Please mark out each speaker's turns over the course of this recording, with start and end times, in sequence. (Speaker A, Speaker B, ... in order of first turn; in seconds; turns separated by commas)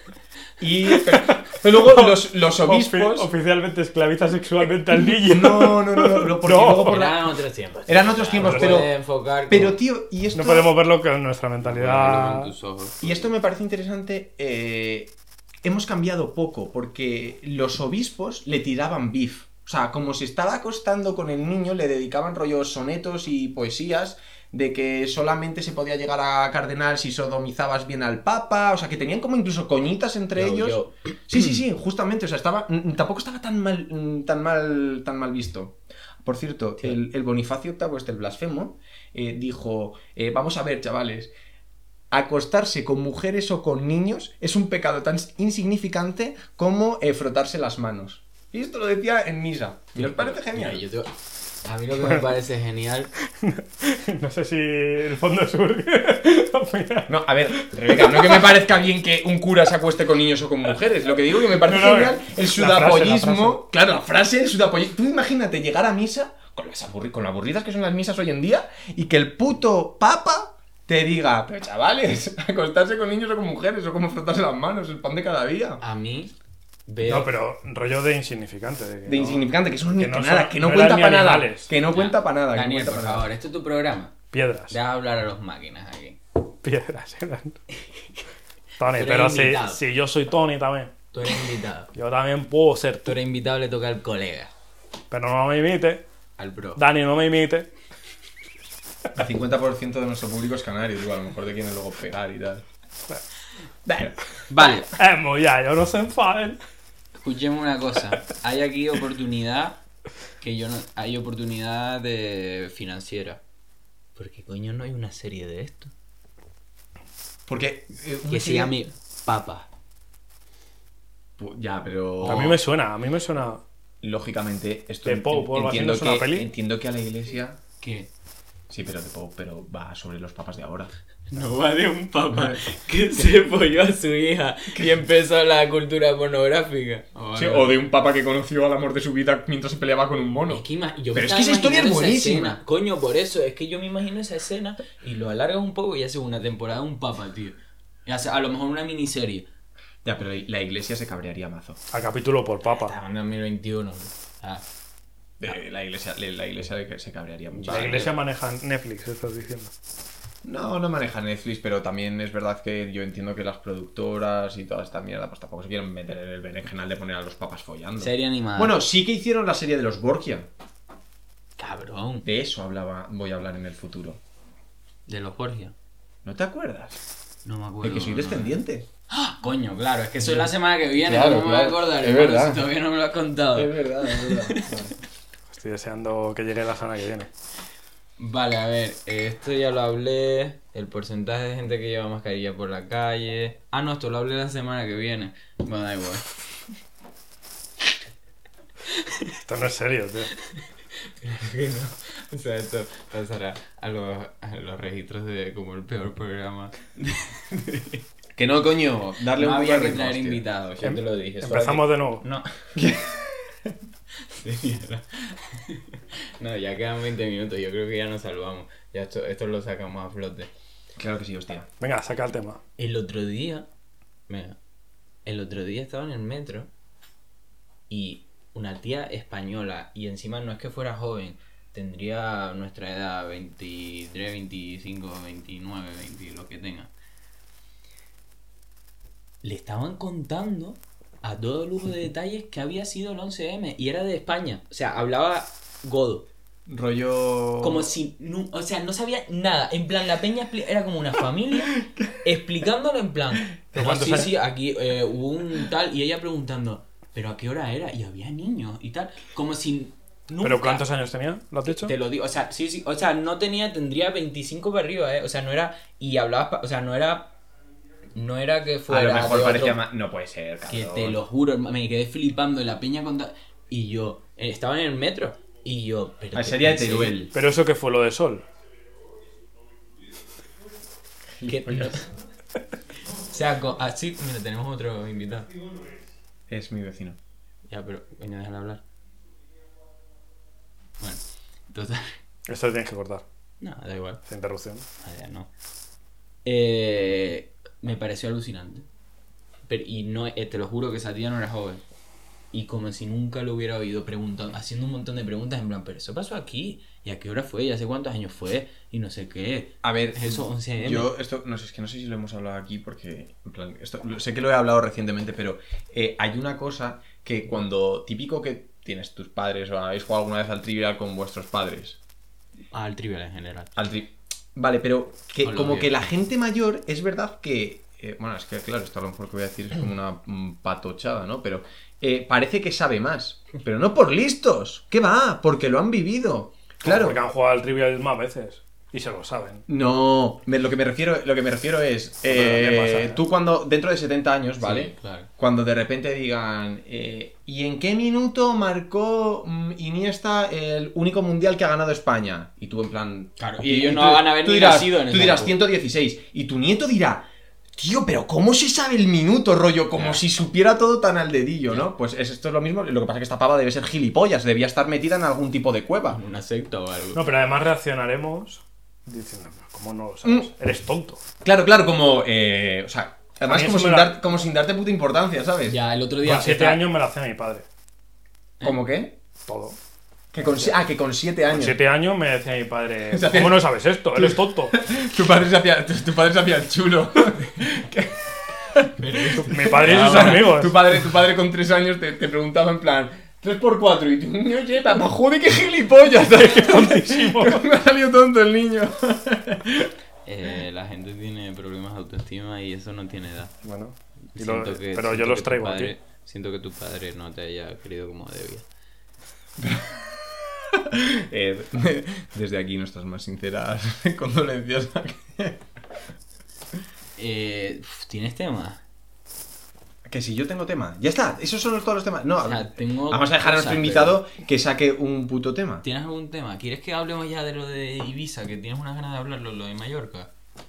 Speaker A: 0.6-3.3, Speaker B: 0.9-7.0, Speaker A: 5.1-7.2, Speaker C: 6.8-9.8, Speaker A: 7.9-8.9, Speaker B: 8.4-8.9, Speaker A: 9.5-10.7, Speaker B: 10.3-12.5, Speaker C: 11.6-13.2, Speaker A: 13.0-15.1, Speaker A: 15.6-41.3, Speaker C: 30.4-30.9, Speaker A: 42.1-50.8, Speaker C: 50.0-51.1, Speaker C: 51.6-53.1, Speaker B: 53.4-58.5, Speaker A: 57.1-75.8, Speaker B: 61.5-63.6, Speaker C: 75.8-76.3, Speaker C: 76.9-77.3, Speaker B: 77.1-81.7, Speaker A: 79.1-83.3, Speaker C: 81.9-84.2, Speaker B: 84.3-84.8, Speaker C: 84.7-86.2, Speaker B: 86.6-87.6, Speaker B: 88.8-90.9, Speaker C: 88.9-89.8, Speaker C: 91.1-91.9, Speaker B: 91.9-93.1, Speaker C: 93.0-94.5, Speaker B: 95.1-96.0, Speaker C: 96.4-96.8, Speaker B: 96.8-97.7, Speaker A: 99.2-102.7, Speaker A: 103.8-104.2, Speaker C: 104.5-104.9, Speaker B: 104.9-106.6, Speaker C: 107.1-109.8, Speaker C: 110.4-113.4, Speaker C: 114.2-115.9, Speaker A: 117.5-118.8, Speaker C: 118.3-119.7, Speaker A: 121.4-122.6, Speaker C: 122.2-122.5, Speaker B: 122.2-123.6, Speaker A: 124.0-127.6, Speaker B: 125.0-126.5, Speaker C: 127.8-128.1, Speaker A: 128.7-130.9, Speaker C: 131.3-137.8, Speaker A: 132.3-132.6, Speaker A: 137.3-142.6, Speaker C: 140.5-149.5, Speaker A: 150.0-151.8, Speaker B: 151.9-152.9, Speaker C: 152.7-154.7, Speaker A: 155.4-158.1, Speaker C: 157.5-158.1, Speaker B: 157.7-159.7, Speaker A: 160.4-170.5, Speaker C: 168.0-168.8, Speaker C: 171.6-172.3, Speaker A: 172.2-174.2, Speaker C: 175.1-175.8, Speaker A: 176.2-177.0, Speaker C: 177.4-184.8, Speaker A: 177.8-178.9, Speaker A: 180.2-182.7, Speaker A: 183.6-184.9, Speaker B: 185.5-187.3, Speaker C: 188.2-196.3, Speaker B: 199.4-200.3, Speaker C: 201.2-208.0, Speaker A: 208.4-210.4, Speaker C: 209.4-212.5, Speaker B: 210.8-212.2, Speaker A: 212.8-213.7, Speaker C: 214.3-220.5, Speaker A: 221.0-221.7, Speaker B: 221.8-222.6, Speaker C: 222.8-223.7, Speaker C: 224.3-224.6, Speaker C: 225.2-226.7, Speaker C: 227.9-236.9, Speaker C: 239.4-246.3, Speaker A: 246.7-247.9, Speaker C: 247.6-260.8, Speaker A: 251.8-252.1, Speaker B: 253.7-254.3, Speaker B: 260.4-261.9, Speaker C: 261.6-267.3, Speaker C: 268.1-269.8, Speaker A: 268.9-271.2, Speaker C: 270.7-277.2, Speaker A: 276.3-277.3, Speaker B: 277.3-278.4, Speaker A: 281.4-282.0, Speaker C: 281.5-282.1, Speaker C: 283.3-285.5, Speaker A: 286.5-287.2, Speaker C: 287.7-288.8, Speaker C: 291.0-292.2, Speaker B: 292.5-293.2, Speaker C: 293.6-294.2, Speaker B: 294.3-294.9, Speaker C: 295.0-295.5, Speaker C: 296.4-298.9, Speaker C: 299.7-301.8, Speaker C: 302.5-311.1, Speaker A: 309.8-322.0, Speaker C: 322.7-323.8, Speaker A: 323.8-337.2, Speaker C: 325.4-325.9, Speaker B: 336.8-339.6, Speaker A: 339.7-357.3, Speaker B: 342.3-343.2, Speaker C: 344.6-345.3, Speaker C: 353.4-355.6, Speaker A: 357.8-366.2, Speaker C: 359.9-360.2, Speaker C: 366.1-367.2, Speaker B: 367.1-371.2, Speaker A: 370.2-370.5, Speaker A: 371.4-375.8, Speaker B: 373.5-374.2, Speaker C: 375.7-376.8, Speaker B: 376.2-377.7, Speaker A: 378.6-379.1, Speaker B: 379.5-379.8, Speaker A: 380.3-381.8, Speaker B: 380.4-380.8, Speaker B: 381.5-384.8, Speaker A: 383.1-399.9, Speaker C: 389.0-390.5, Speaker B: 389.4-390.8, Speaker B: 396.4-397.7, Speaker C: 400.2-403.5, Speaker B: 403.6-405.9, Speaker C: 404.3-408.6, Speaker A: 409.6-415.6, Speaker C: 417.2-418.8, Speaker A: 420.1-425.8, Speaker C: 422.4-424.2, Speaker C: 425.8-430.3